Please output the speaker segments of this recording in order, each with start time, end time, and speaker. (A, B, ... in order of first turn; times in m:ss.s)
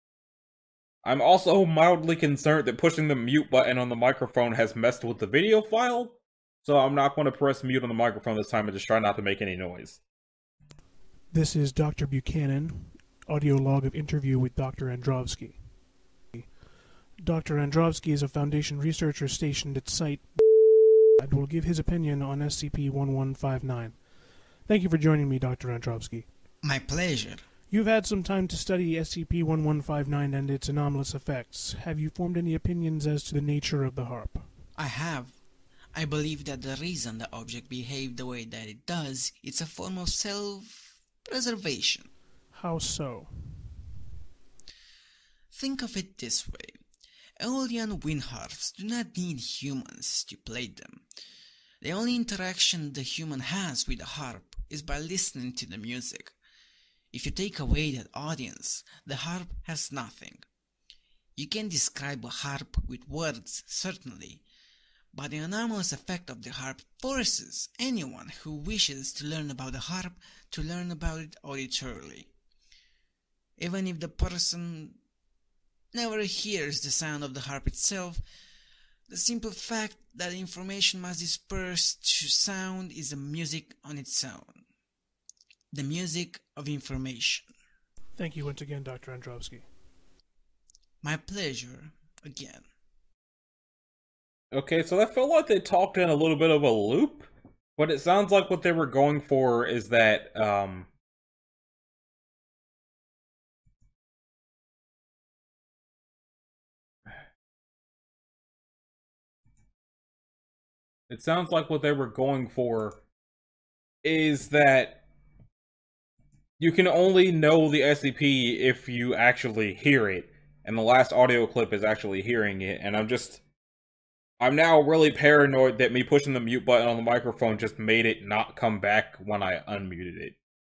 0:01.0-0:10.0 A
0:11.3-0:15.6 B
0:17.2-0:20.3 B
0:21.2-0:24.0 B
0:24.6-0:26.3 B
0:26.6-0:27.5 C
0:27.7-0:34.5 B
0:34.8-0:35.3 C
0:35.9-0:42.1 C
0:42.5-0:43.8 B
0:45.5-0:46.8 C
0:47.4-0:51.0 C
0:51.8-0:56.3 C
0:57.1-1:00.4 C
1:01.4-1:04.4 C
1:05.1-1:12.3 C
1:13.6-1:15.0 C
1:15.9-1:18.2 C
1:19.1-1:24.6 C
1:25.7-1:27.5 C
1:28.2-1:29.6 B
1:31.0-1:32.6 C
1:34.5-1:40.9 A
1:51.1-1:53.0 A
1:54.0-1:55.0 A
1:56.6-2:03.4 A
2:04.4-2:10.4 A